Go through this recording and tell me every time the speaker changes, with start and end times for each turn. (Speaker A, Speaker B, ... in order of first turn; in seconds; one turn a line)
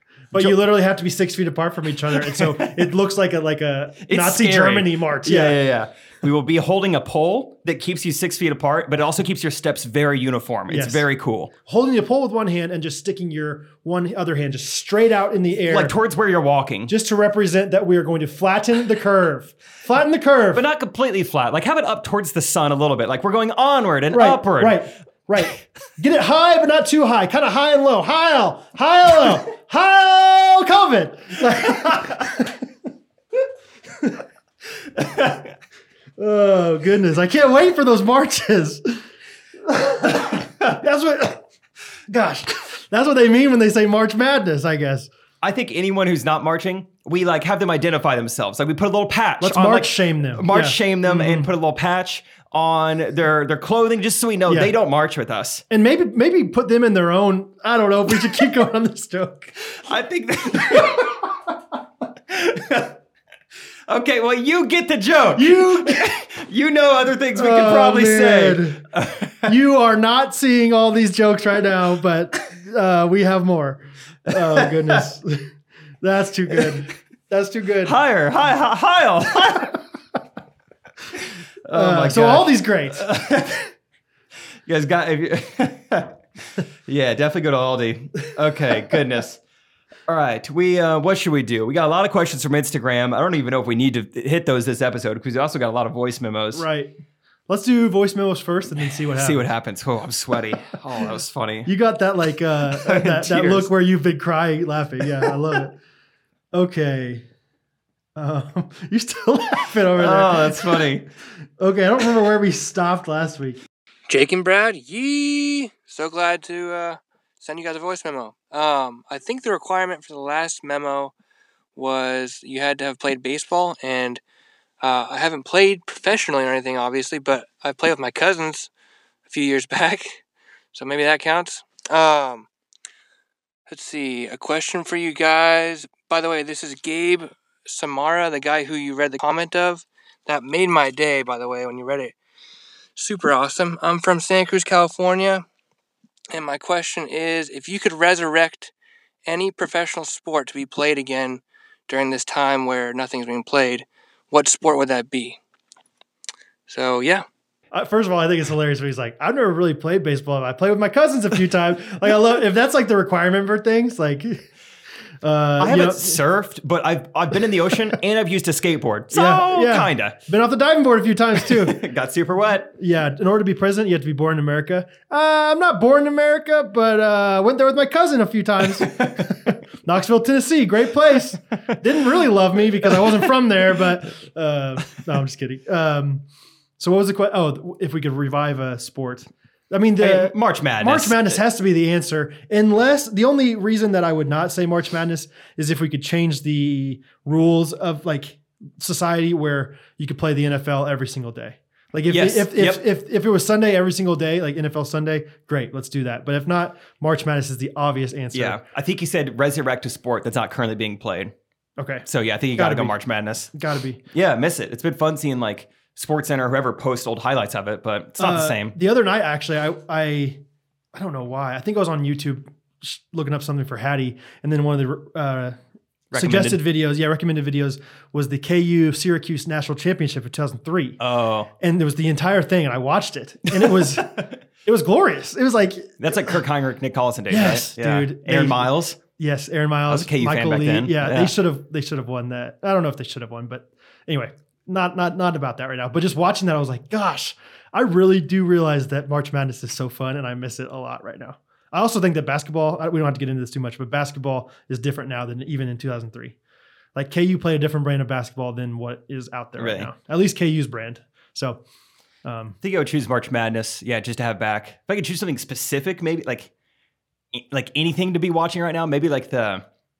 Speaker A: 0.3-5.6
Speaker B: 2.2-2.7
Speaker B: 4.0-11.5
Speaker A: 10.7-11.1
Speaker A: 11.6-15.9
Speaker B: 15.7-16.9
Speaker A: 16.9-20.6
Speaker B: 20.5-24.8
Speaker A: 24.1-32.6
Speaker B: 35.0-35.4
Speaker A: 36.2-39.0
Speaker A: 39.6-41.4
Speaker A: 42.1-45.1
Speaker B: 45.4-55.6
Speaker A: 49.4-51.5
Speaker A: 54.5-54.7
Speaker A: 55.7-59.5
Speaker B: 59.8-61.1
Speaker A: 60.5-61.0
Speaker B: 62.3-62.9
Speaker B: 63.9-69.5
Speaker A: 65.3-66.1
Speaker A: 67.3-68.8
Speaker A: 69.5-75.5
Speaker B: 74.3-75.0
Speaker A: 76.0-78.0
Speaker B: 77.8-79.8
Speaker B: 81.7-83.6
Speaker A: 81.7-83.0
Speaker B: 84.7-86.2
Speaker B: 86.9-89.4
Speaker B: 90.1-96.7
Speaker A: 96.5-96.9
Speaker A: 97.5-99.5
Speaker B: 99.1-101.7
Speaker A: 101.7-105.7
Speaker B: 102.7-103.7
Speaker A: 106.5-107.2
Speaker A: 108.2-110.9
Speaker B: 109.9-111.1
Speaker A: 111.6-113.6
Speaker C: 114.1-121.1
Speaker C: 121.7-124.2
Speaker C: 124.8-128.7
Speaker C: 129.3-130.2
Speaker C: 130.7-132.5
Speaker C: 133.7-142.1
Speaker C: 142.9-145.4
Speaker C: 146.3-148.7
Speaker C: 149.2-155.4
Speaker C: 156.7-157.2
Speaker A: 157.7-164.4
Speaker A: 165.2-166.2
Speaker B: 165.6-170.2
Speaker A: 169.1-171.8
Speaker B: 171.6-172.7
Speaker A: 172.7-186.2
Speaker B: 178.8-179.3
Speaker A: 186.8-208.6
Speaker B: 190.0-191.4
Speaker B: 202.1-202.8
Speaker B: 208.3-211.3
Speaker A: 211.8-213.0
Speaker B: 212.0-213.5
Speaker A: 213.5-214.0
Speaker B: 214.1-218.7
Speaker A: 218.2-220.4
Speaker A: 220.9-225.6
Speaker B: 226.1-226.6
Speaker A: 226.1-231.0
Speaker B: 231.0-231.5
Speaker A: 231.6-236.3
Speaker B: 233.6-234.3
Speaker B: 236.0-239.0
Speaker A: 237.3-256.4
Speaker B: 239.9-241.3
Speaker A: 256.9-261.6
Speaker B: 259.6-259.9
Speaker A: 262.2-262.6
Speaker B: 262.6-266.5
Speaker B: 267.3-269.6